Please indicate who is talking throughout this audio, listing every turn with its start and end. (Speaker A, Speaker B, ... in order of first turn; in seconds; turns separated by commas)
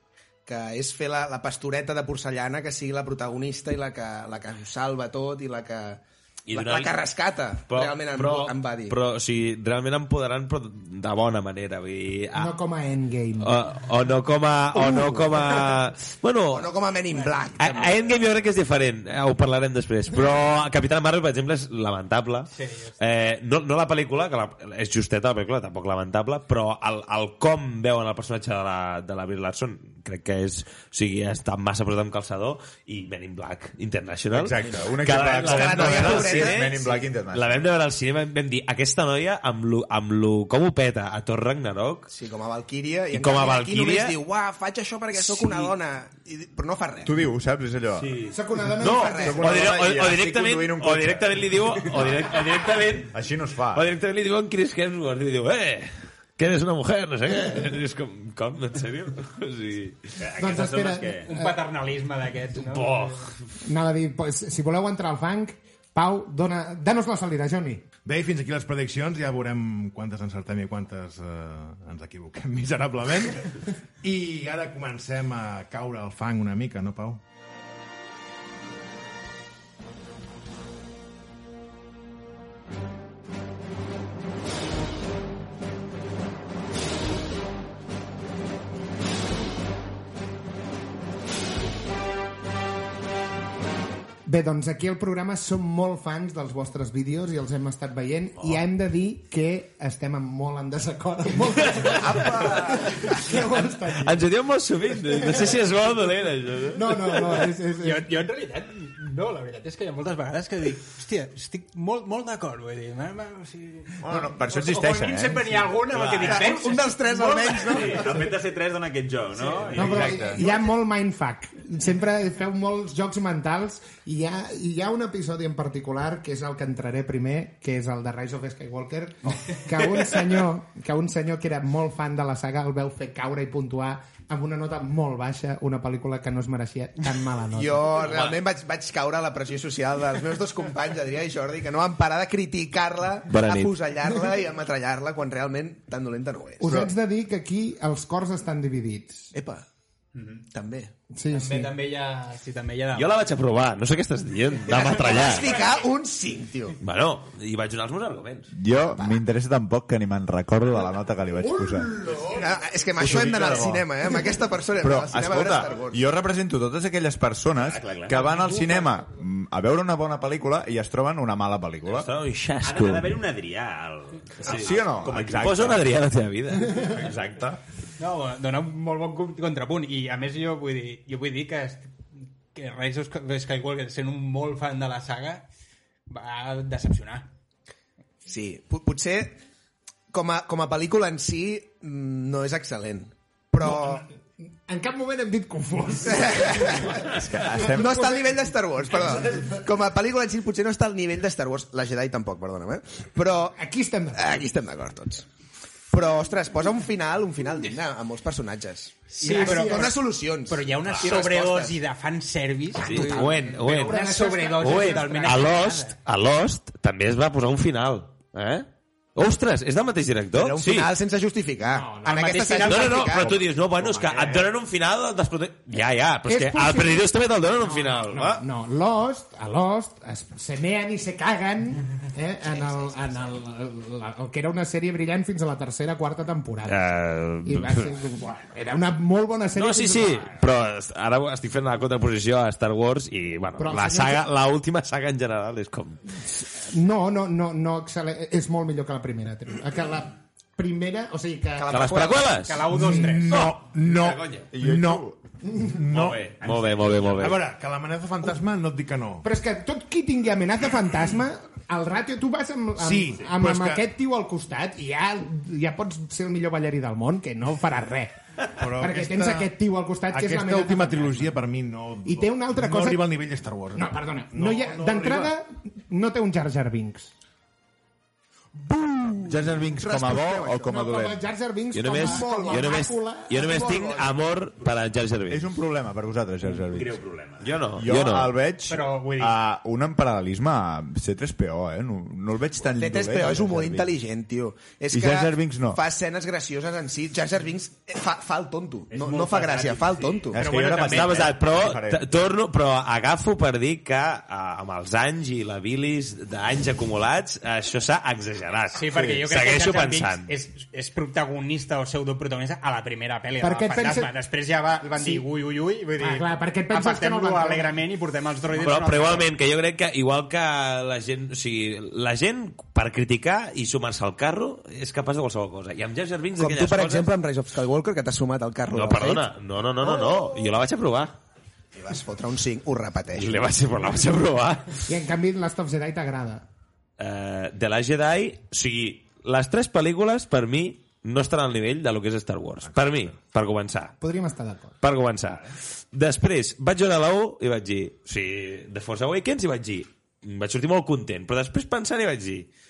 Speaker A: 0.5-9.0, Speaker B: 6.5-7.0, Speaker B: 7.7-12.6, Speaker C: 12.3-13.5, Speaker B: 13.4-16.7, Speaker A: 15.0-15.6, Speaker A: 16.5-18.1, Speaker B: 17.6-42.1, Speaker D: 22.5-23.0, Speaker E: 34.3-37.6, Speaker A: 35.3-36.9, Speaker A: 42.1-47.2, Speaker B: 43.1-44.2, Speaker B: 45.1-45.7, Speaker E: 47.0-48.2, Speaker B: 48.0-53.2, Speaker C: 48.3-49.5, Speaker A: 48.8-49.5, Speaker E: 49.2-52.1, Speaker E: 53.1-53.9, Speaker B: 53.7-60.2, Speaker F: 60.2-61.3, Speaker C: 60.4-61.6, Speaker D: 61.2-63.3, Speaker B: 62.6-63.3, Speaker C: 63.6-67.8, Speaker G: 68.0-77.2, Speaker C: 94.3-104.3, Speaker B: 101.7-107.5, Speaker A: 101.9-102.9, Speaker C: 104.9-105.6, Speaker C: 106.7-108.1, Speaker D: 107.8-118.1, Speaker E: 114.0-115.7, Speaker B: 115.9-116.6, Speaker A: 116.2-118.0, Speaker F: 117.6-120.4, Speaker D: 119.4-119.8, Speaker C: 119.7-137.9, Speaker B: 119.8-120.4, Speaker A: 137.5-146.8, Speaker B: 138.0-138.4, Speaker B: 143.3-143.7, Speaker C: 146.6-149.3, Speaker A: 149.3-149.6, Speaker A: 150.5-150.9, Speaker C: 151.1-151.7, Speaker D: 151.3-153.1, Speaker B: 152.9-155.5, Speaker A: 154.7-156.8, Speaker B: 156.8-158.5, Speaker E: 158.6-162.0, Speaker A: 158.9-159.2, Speaker C: 161.4-162.4, Speaker A: 162.2-166.0, Speaker E: 163.0-163.9, Speaker B: 163.1-163.6, Speaker E: 164.8-172.1, Speaker F: 167.6-168.3, Speaker D: 168.5-168.9, Speaker B: 171.9-173.1, Speaker F: 172.6-175.7, Speaker B: 174.4-177.4, Speaker E: 174.4-175.8, Speaker E: 176.8-177.6, Speaker D: 178.0-185.4, Speaker D: 186.1-187.3, Speaker A: 188.2-189.4, Speaker A: 190.1-194.1, Speaker C: 193.6-194.0, Speaker C: 194.7-198.3, Speaker A: 196.1-197.1, Speaker E: 197.0-198.1, Speaker A: 197.7-203.6, Speaker C: 199.2-199.5, Speaker C: 203.6-204.2, Speaker A: 204.1-205.3, Speaker A: 205.9-211.8, Speaker D: 209.1-209.9, Speaker C: 209.2-210.0, Speaker D: 210.5-216.0, Speaker B: 212.8-220.9, Speaker C: 212.9-215.6, Speaker A: 220.3-223.5, Speaker C: 221.7-222.8, Speaker D: 222.0-223.1, Speaker B: 222.6-228.4, Speaker C: 223.9-224.4, Speaker C: 226.3-236.8, Speaker A: 232.5-233.3, Speaker B: 236.6-238.0, Speaker C: 237.4-240.4, Speaker B: 239.5-246.0, Speaker C: 243.6-244.2, Speaker C: 246.2-252.2, Speaker A: 251.6-252.4, Speaker B: 251.7-252.7, Speaker D: 252.4-253.4, Speaker G: 252.7-255.1, Speaker C: 252.7-253.2, Speaker B: 253.3-254.5, Speaker E: 254.5-255.2, Speaker C: 255.4-255.8, Speaker G: 255.6-256.3, Speaker B: 255.9-257.4, Speaker F: 256.6-257.2, Speaker G: 257.1-259.2, Speaker C: 259.2-271.4, Speaker G: 262.8-263.9, Speaker G: 268.6-269.5, Speaker G: 270.1-275.3, Speaker C: 272.0-273.1, Speaker C: 273.8-277.1, Speaker A: 278.9-280.7, Speaker E: 279.3-281.2, Speaker C: 280.7-283.5, Speaker B: 281.7-285.5, Speaker A: 281.9-284.2, Speaker E: 285.3-287.0, Speaker F: 286.6-287.5, Speaker B: 287.4-288.3, Speaker E: 287.8-293.9, Speaker D: 288.7-289.4, Speaker A: 292.8-300.4, Speaker E: 294.9-295.8, Speaker F: 298.9-300.3, Speaker E: 300.3-302.1, Speaker D: 300.4-301.0, Speaker B: 300.7-310.3, Speaker D: 308.8-319.3, Speaker E: 308.9-309.2, Speaker C: 313.4-314.1, Speaker C: 315.0-315.3, Speaker C: 316.0-317.7, Speaker B: 318.6-327.1, Speaker A: 326.4-329.2, Speaker B: 328.7-331.2, Speaker A: 329.8-330.5, Speaker A: 331.7-333.4, Speaker B: 333.1-334.8, Speaker C: 334.9-336.4, Speaker B: 337.0-343.9, Speaker C: 344.0-344.7, Speaker B: 344.8-352.5